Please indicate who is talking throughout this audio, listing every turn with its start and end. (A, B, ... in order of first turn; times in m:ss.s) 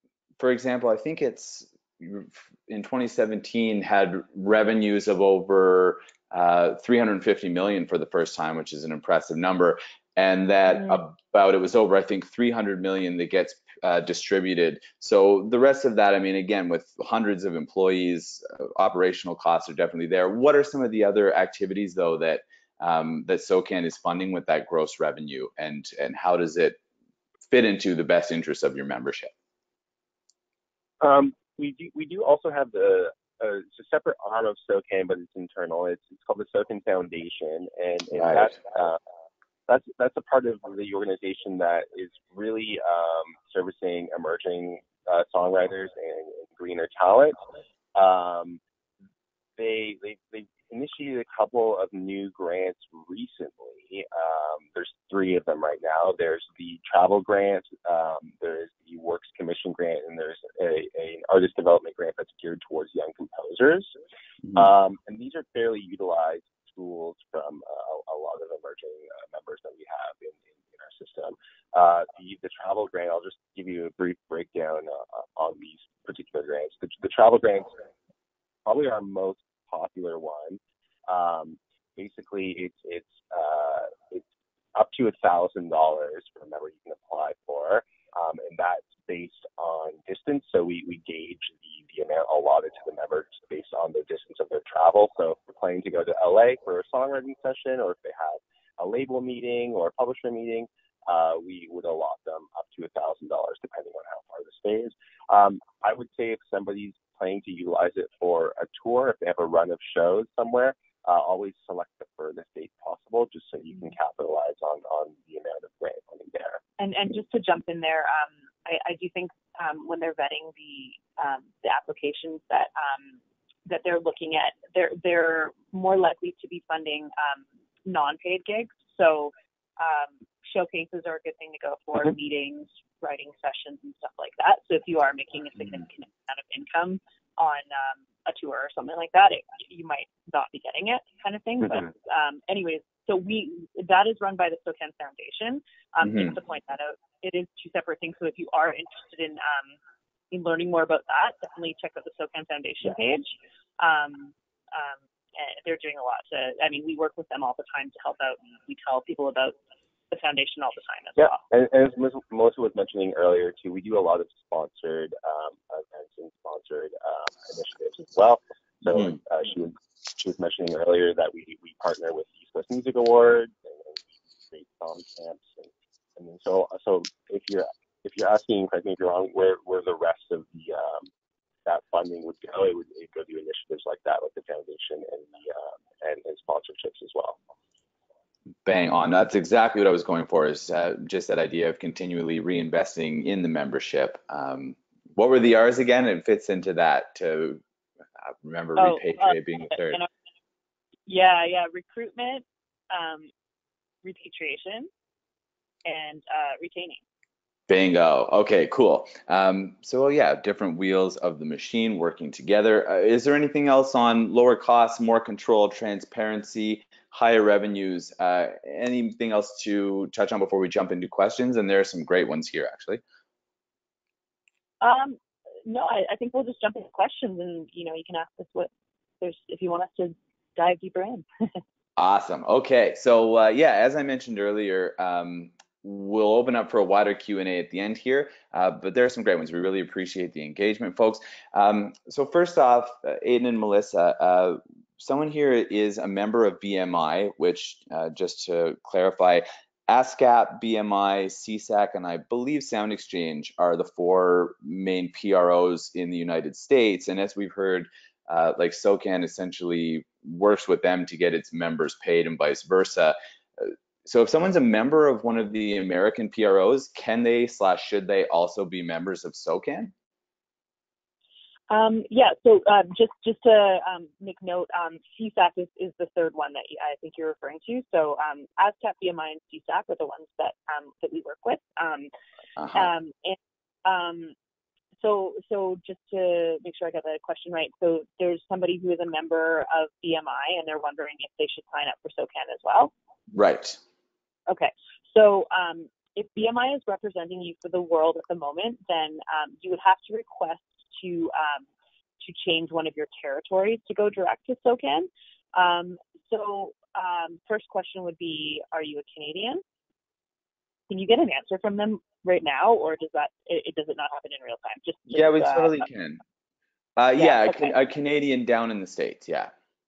0:00.4-0:26.8 A
0:27.5-0:29.3 A
0:31.0-0:39.0 B
0:38.2-0:38.5 A
0:39.7-0:47.4 B
0:48.0-0:48.6 B
0:49.6-1:03.9 B
1:04.5-1:17.7 B
1:18.7-1:56.6 B
1:56.8-2:03.2 C
2:03.7-2:29.8 C
2:26.0-2:26.3 A
2:30.3-2:39.6 C
2:40.1-2:41.4 C
2:41.2-3:01.1 B
3:01.6-3:07.4 B
3:08.7-3:17.6 A
3:18.2-3:20.0 A
3:18.8-3:20.1 C
3:21.1-3:23.3 C
3:24.0-3:24.9 C
3:25.8-3:27.0 C
3:27.7-3:43.0 A
3:44.8-3:48.7 C
3:49.2-3:51.2 C
3:52.0-4:29.9 A
4:31.7-4:42.1 C
4:42.6-4:42.9 A
4:42.7-4:44.4 C
4:45.0-4:52.9 C
4:53.3-4:53.8 A
4:54.5-5:01.7 C
5:02.2-5:09.6 C
5:10.9-5:15.9 C
5:15.1-5:16.2 A
5:17.0-5:19.5 A
5:17.2-5:17.8 C